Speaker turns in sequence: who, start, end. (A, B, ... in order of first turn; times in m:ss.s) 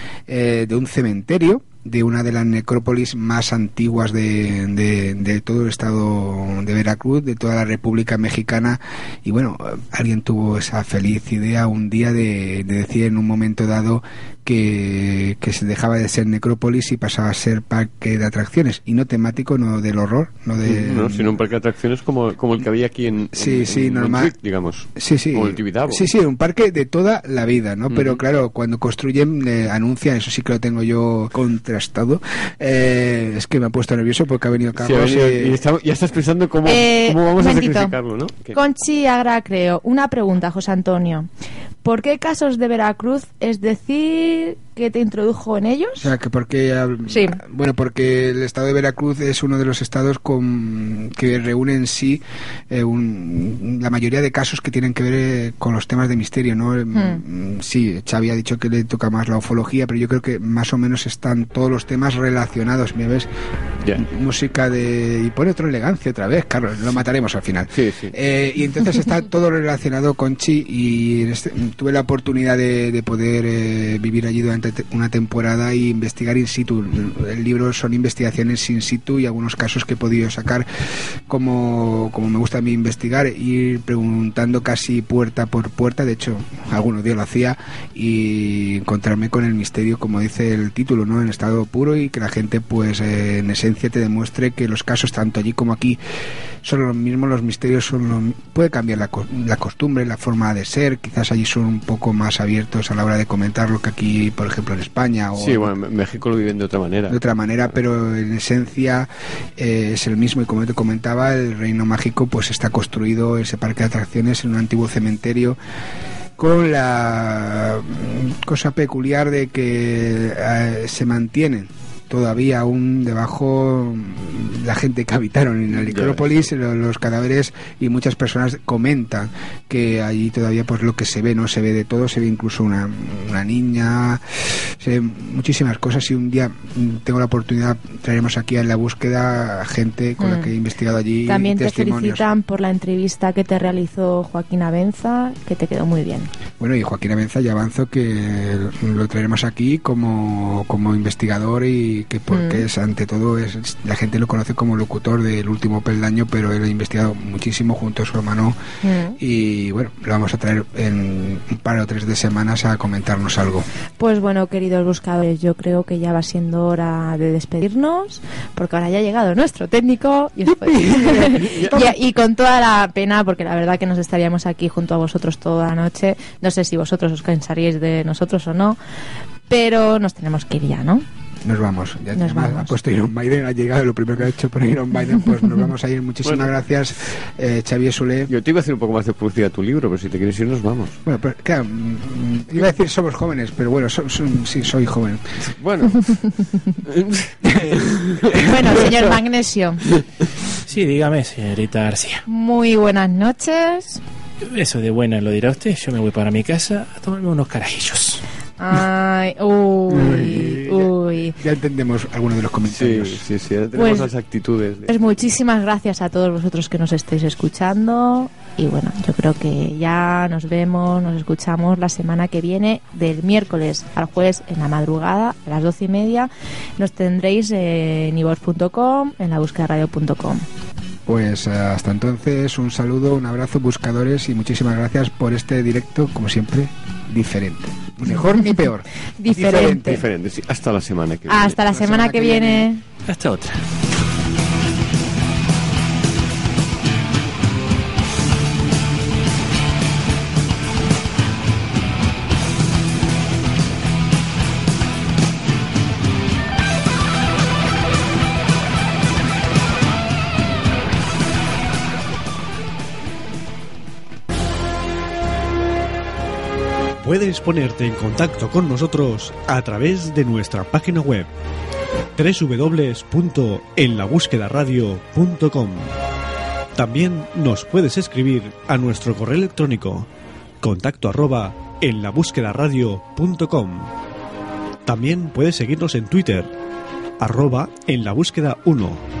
0:00.3-0:21.3 A
0:20.6-0:26.1 B
0:23.4-0:24.3 A
0:25.0-0:35.6 A
0:27.9-0:28.2 B
0:34.8-0:38.6 B
0:36.6-0:37.9 C
0:38.5-0:41.3 C
0:41.8-0:46.1 C
0:46.0-1:03.3 A
0:47.1-0:47.4 C
0:56.9-0:57.2 C
1:03.9-1:20.6 A
1:07.7-1:08.1 B
1:21.3-1:36.0 A
1:36.6-1:45.7 A
1:45.4-1:47.2 B
1:47.1-1:55.6 A
1:56.4-2:22.2 A
2:05.8-2:06.3 B
2:20.2-2:20.5 C
2:21.2-2:26.3 C
2:26.6-2:38.6 A
2:32.3-2:32.6 C
2:38.8-2:39.2 C
2:39.2-2:43.7 A
2:44.0-2:58.8 C
2:50.5-2:51.9 A
2:59.5-3:01.0 C
3:01.4-3:08.3 A
3:02.1-3:02.7 C
3:06.2-3:06.5 B
3:08.3-3:11.0 B
3:11.0-3:15.3 A
3:15.4-3:18.5 B
3:17.4-3:18.4 A
3:18.4-3:19.8 C
3:20.6-3:22.2 D
3:22.3-3:24.0 C
3:24.4-3:28.2 D
3:28.6-3:31.4 C
3:29.9-3:33.2 A
3:32.7-3:34.9 B
3:33.7-3:34.1 C
3:34.9-3:50.4 C
3:51.0-4:00.0 A
3:58.1-3:58.5 C
3:59.2-4:00.0 C
3:59.8-4:01.8 B
4:01.3-4:02.8 C
4:01.7-4:03.6 D
4:27.0-4:31.3 E
4:32.2-4:35.9 E
4:36.7-4:40.1 E
4:40.6-4:43.9 E
4:44.8-4:46.5 E
4:47.2-4:49.0 E